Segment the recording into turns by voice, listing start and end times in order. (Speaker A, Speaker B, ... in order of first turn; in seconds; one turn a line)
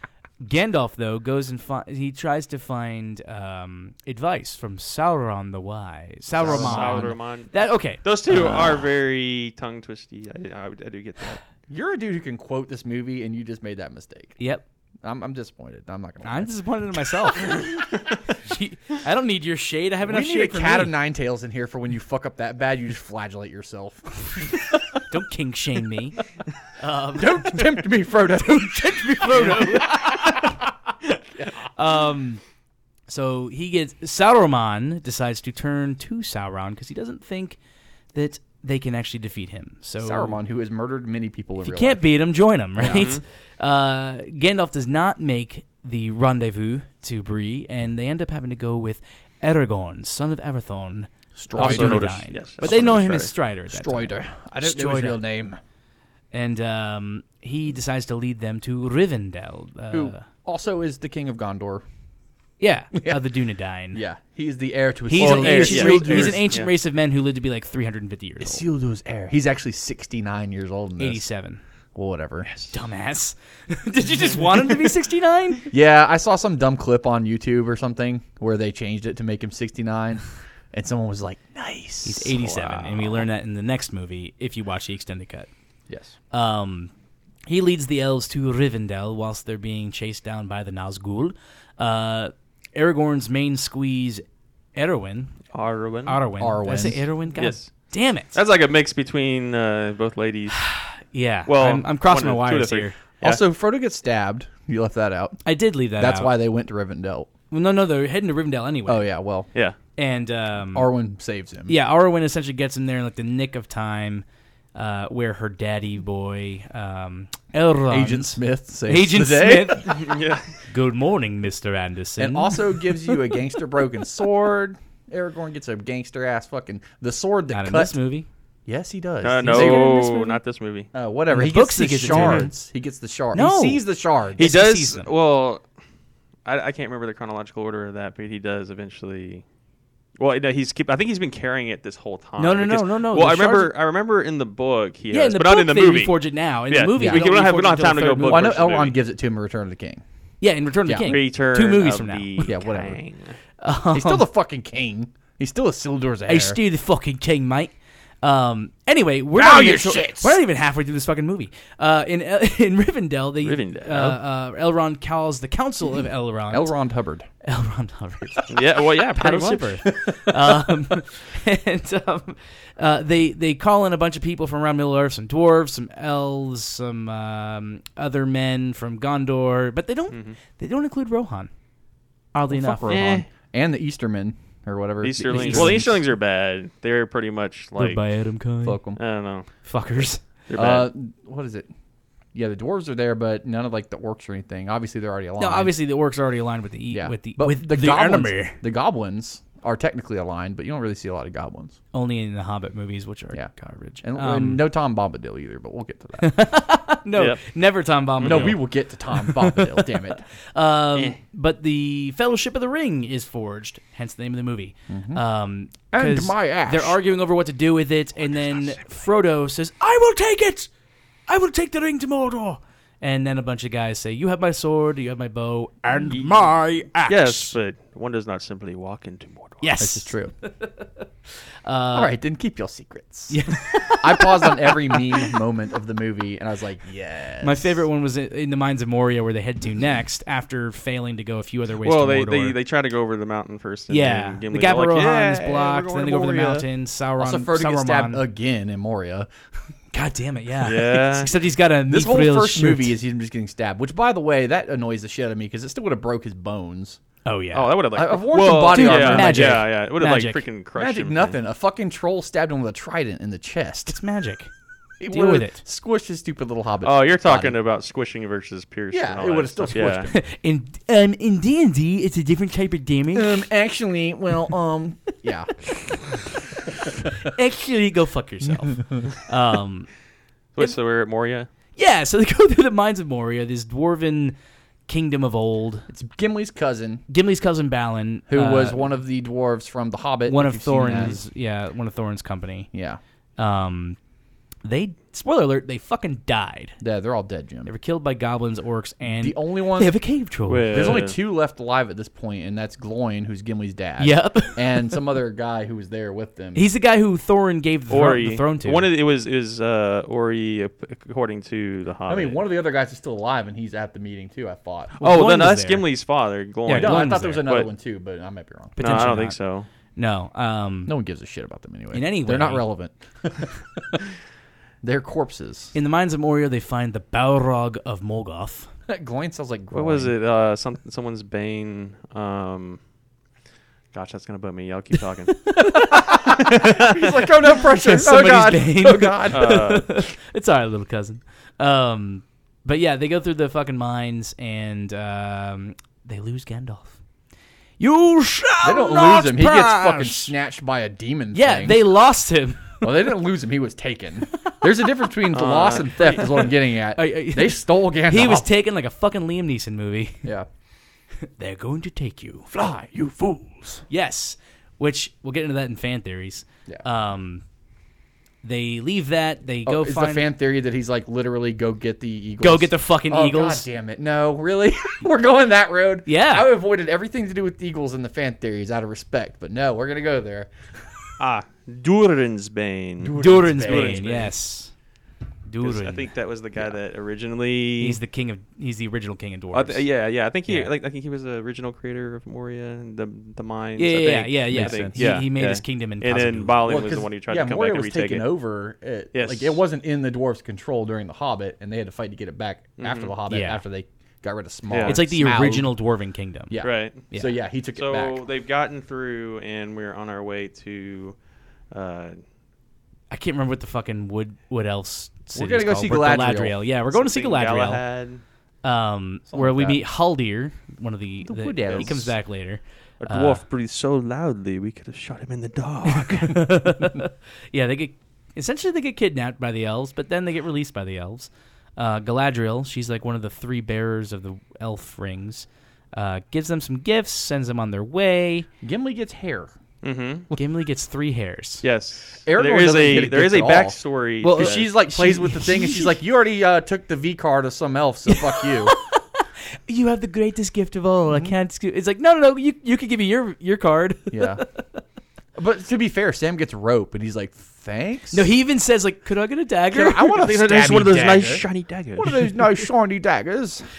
Speaker A: 0.4-8.9
Speaker B: 6.3-7.2
Speaker C: 6.4-11.4
Speaker B: 11.7-14.4
Speaker A: 14.4-14.6
Speaker B: 15.0-16.5
Speaker A: 16.2-20.9
Speaker B: 20.0-24.8
Speaker A: 25.1-26.2
Speaker A: 26.8-30.2
Speaker B: 27.1-30.0
Speaker A: 31.7-32.4
Speaker A: 33.1-37.6
Speaker A: 38.1-40.4
Speaker B: 40.0-42.1
Speaker A: 41.6-55.2
Speaker B: 42.8-43.1
Speaker C: 42.8-43.2
Speaker B: 51.4-55.6
Speaker C: 51.6-53.3
Speaker A: 56.3-60.2
Speaker B: 59.9-61.8
Speaker A: 62.6-64.0
Speaker B: 63.0-63.2
Speaker B: 63.9-66.4
Speaker A: 65.1-68.6
Speaker C: 65.2-66.7
Speaker B: 68.4-71.2
Speaker A: 71.0-71.6
Speaker B: 71.9-72.5
Speaker A: 72.7-75.7
Speaker B: 75.7-82.3
Speaker A: 82.0-85.5
Speaker C: 82.3-83.2
Speaker B: 85.9-86.1
Speaker A: 86.3-86.9
Speaker A: 87.5-94.2
Speaker A: 94.8-95.4
Speaker C: 95.5-96.2
Speaker A: 96.1-98.4
Speaker B: 96.4-97.0
Speaker C: 97.4-100.7
Speaker A: 100.6-103.0
Speaker C: 101.5-103.4
Speaker B: 103.2-105.4
Speaker A: 105.4-106.3
Speaker B: 106.0-107.3
Speaker A: 107.5-109.1
Speaker B: 108.9-109.5
Speaker A: 110.0-110.9
Speaker B: 110.7-111.7
Speaker A: 111.7-120.1
Speaker B: 117.9-120.1
Speaker C: 119.8-120.5
Speaker A: 120.7-122.9
Speaker B: 122.2-128.0
Speaker A: 127.5-128.3
Speaker B: 128.7-129.9
Speaker C: 129.2-130.9
Speaker A: 129.4-130.4
Speaker B: 130.9-134.5
Speaker A: 131.3-132.5
Speaker C: 132.1-132.5
Speaker A: 133.3-133.8
Speaker C: 134.4-135.6
Speaker A: 134.4-135.1
Speaker C: 136.4-139.4
Speaker C: 140.2-146.2
Speaker A: 142.4-143.7
Speaker A: 145.1-148.5
Speaker C: 146.7-149.0
Speaker B: 147.0-147.3
Speaker B: 148.2-150.0
Speaker A: 150.4-152.5
Speaker B: 150.8-151.2
Speaker C: 151.0-153.3
Speaker B: 152.4-153.0
Speaker A: 153.6-154.3
Speaker B: 153.9-156.6
Speaker A: 156.3-166.7
Speaker B: 159.3-160.4
Speaker C: 163.4-164.2
Speaker B: 166.5-167.3
Speaker A: 167.4-181.5
Speaker C: 168.5-169.8
Speaker B: 169.8-170.8
Speaker C: 180.1-180.4
Speaker A: 182.3-183.0
Speaker B: 182.5-186.0
Speaker C: 182.8-183.3
Speaker C: 185.0-188.0
Speaker A: 185.3-185.8
Speaker A: 187.8-188.8
Speaker B: 188.6-189.0
Speaker C: 188.9-190.9
Speaker A: 189.6-190.2
Speaker B: 190.6-191.7
Speaker B: 192.3-195.7
Speaker A: 195.4-198.6
Speaker B: 196.9-201.8
Speaker A: 201.9-204.7
Speaker B: 204.0-206.3
Speaker A: 206.2-220.7
Speaker C: 207.2-207.4
Speaker C: 208.2-208.6
Speaker B: 208.2-210.2
Speaker B: 214.9-215.2
Speaker B: 215.9-217.0
Speaker A: 221.3-227.6
Speaker C: 226.1-226.3
Speaker C: 227.1-229.7
Speaker A: 229.6-231.1
Speaker B: 229.8-230.3
Speaker A: 231.7-232.1
Speaker B: 231.9-237.8
Speaker A: 233.3-235.3
Speaker A: 237.4-242.6
Speaker C: 241.8-245.5
Speaker A: 243.9-248.2
Speaker B: 245.3-246.7
Speaker B: 247.2-249.3
Speaker A: 249.9-252.9
Speaker C: 250.6-251.3
Speaker B: 251.9-257.0
Speaker A: 257.2-257.8
Speaker C: 257.5-261.4
Speaker B: 257.9-259.7
Speaker A: 258.7-260.4
Speaker B: 260.8-264.0
Speaker A: 263.9-264.5
Speaker B: 265.0-267.6
Speaker A: 265.1-265.6
Speaker C: 266.8-270.1
Speaker B: 268.9-270.2
Speaker A: 270.1-273.4
Speaker B: 273.1-276.1
Speaker B: 276.9-277.1
Speaker A: 277.0-279.9
Speaker C: 280.6-281.5
Speaker A: 281.8-284.4
Speaker A: 284.9-285.9
Speaker B: 285.9-287.0
Speaker A: 287.1-288.8
Speaker B: 288.3-291.2
Speaker A: 290.3-292.7
Speaker C: 290.9-291.2
Speaker B: 292.7-293.0
Speaker A: 293.4-294.0
Speaker A: 294.6-296.8
Speaker B: 296.8-297.7
Speaker A: 297.7-301.1
Speaker B: 299.2-299.9
Speaker C: 300.5-301.2
Speaker B: 300.7-306.7
Speaker A: 304.0-305.0
Speaker A: 306.6-308.9
Speaker C: 307.9-312.4
Speaker B: 312.1-314.9
Speaker A: 315.0-315.9
Speaker C: 315.0-317.7
Speaker A: 316.7-317.4
Speaker B: 316.7-318.8
Speaker A: 318.8-319.4
Speaker C: 318.8-319.7
Speaker A: 319.9-320.9
Speaker B: 320.9-324.0
Speaker A: 321.9-322.7
Speaker B: 324.8-325.8
Speaker A: 325.7-328.7
Speaker B: 328.9-330.1
Speaker C: 329.7-332.8
Speaker C: 333.9-337.2
Speaker A: 335.4-336.3
Speaker B: 335.7-339.7
Speaker A: 337.4-347.0
Speaker C: 339.3-339.9
Speaker A: 347.8-350.3
Speaker B: 348.6-351.9
Speaker A: 351.3-353.0
Speaker B: 352.8-358.5
Speaker C: 355.3-356.5
Speaker A: 356.9-360.3
Speaker A: 361.2-362.5
Speaker B: 362.5-363.8
Speaker A: 363.9-367.4
Speaker A: 368.4-370.3
Speaker B: 369.6-381.0
Speaker A: 372.4-373.7
Speaker A: 376.1-376.5
Speaker C: 381.2-384.3
Speaker B: 383.0-384.1
Speaker A: 383.2-384.7
Speaker A: 385.4-386.1
Speaker C: 385.6-388.0
Speaker A: 387.8-389.8
Speaker C: 389.5-398.2
Speaker A: 390.5-390.7
Speaker A: 393.8-396.8
Speaker B: 394.5-395.2
Speaker B: 396.7-405.7
Speaker C: 399.1-399.6
Speaker C: 402.8-403.1
Speaker A: 403.3-403.6
Speaker C: 404.7-405.0
Speaker A: 404.9-406.6
Speaker B: 406.5-408.2
Speaker C: 406.6-407.1
Speaker C: 407.8-411.2
Speaker C: 411.7-412.2
Speaker A: 413.1-417.8
Speaker B: 415.3-416.6
Speaker C: 416.9-418.2
Speaker A: 418.6-423.4
Speaker B: 419.3-419.8
Speaker B: 421.2-422.1
Speaker C: 421.7-421.9
Speaker C: 423.0-426.5
Speaker A: 425.9-438.5
Speaker B: 438.6-439.5
Speaker C: 439.8-440.3
Speaker A: 440.3-441.6
Speaker C: 441.6-444.7
Speaker B: 442.2-443.8
Speaker A: 444.2-445.9
Speaker B: 444.3-448.8
Speaker A: 448.1-454.8
Speaker B: 454.1-454.4
Speaker B: 455.3-458.3
Speaker A: 458.1-460.2
Speaker B: 459.7-463.7
Speaker C: 460.0-462.2